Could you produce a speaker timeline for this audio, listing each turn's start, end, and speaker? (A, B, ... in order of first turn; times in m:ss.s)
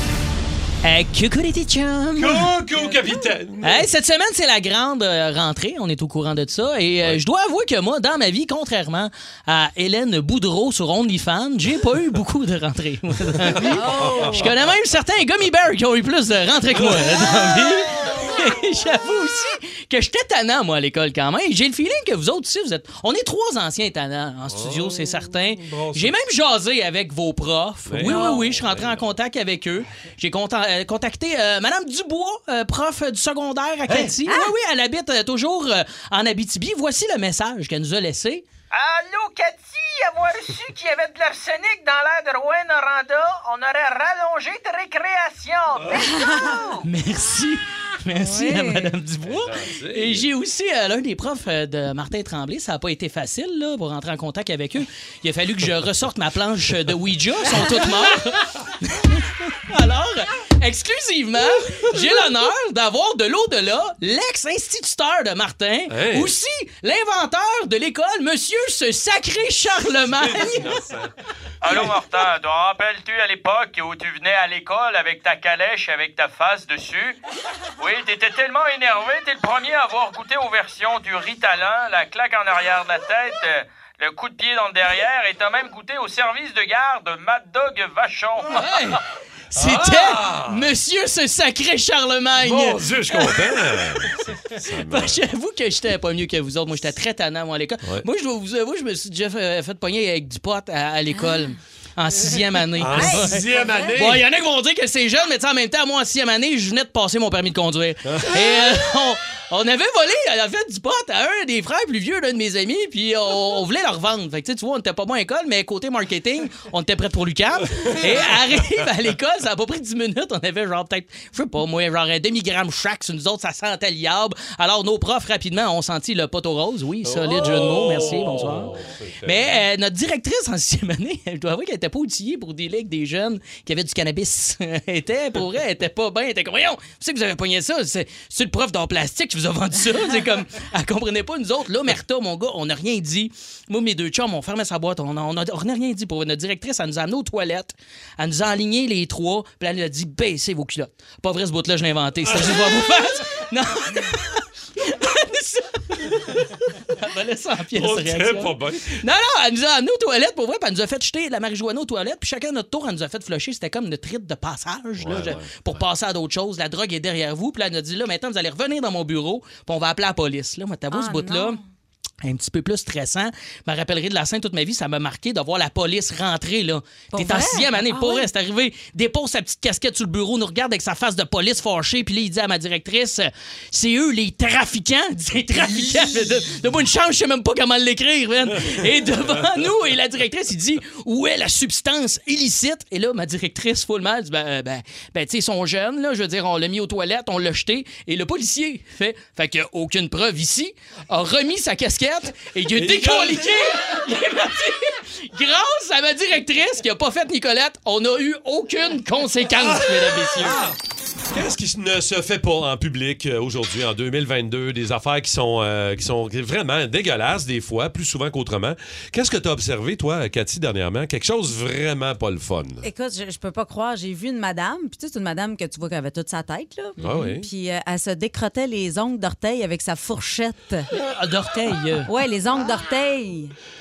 0:00.8-0:02.5 A
0:02.2-0:03.9 B
0:03.6-0:46.1 A
0:13.6-0:14.5 C
0:13.6-0:14.1 B
0:24.5-0:26.2 B
0:27.8-0:29.1 B
0:28.0-0:28.4 C
0:33.9-0:34.1 B
0:45.9-0:46.8 C
0:46.8-1:10.8 A
0:48.1-0:48.9 C
0:49.2-0:50.2 B
1:05.9-1:06.3 B
1:10.1-1:11.1 B
1:11.6-1:17.2 D
1:11.6-1:12.0 B
1:17.8-1:28.8 D
1:28.6-1:29.0 A
1:29.5-1:30.7 B
1:29.5-1:33.4 A
1:32.4-1:35.2 B
1:34.1-2:51.6 A
1:41.1-1:41.4 C
1:42.8-1:44.2 B
1:42.9-1:43.9 C
1:48.0-1:48.4 B
2:07.0-2:09.6 B
2:37.7-2:39.0 B
2:45.0-2:45.8 B
2:50.9-2:51.6 C
2:52.2-3:30.6 A
2:57.1-2:58.3 C
3:22.7-3:23.6 B
3:29.5-3:30.8 B
3:31.3-3:42.9 B
3:42.8-3:50.8 C
3:47.0-3:47.5 B
3:50.9-3:52.1 A
3:52.0-3:53.5 C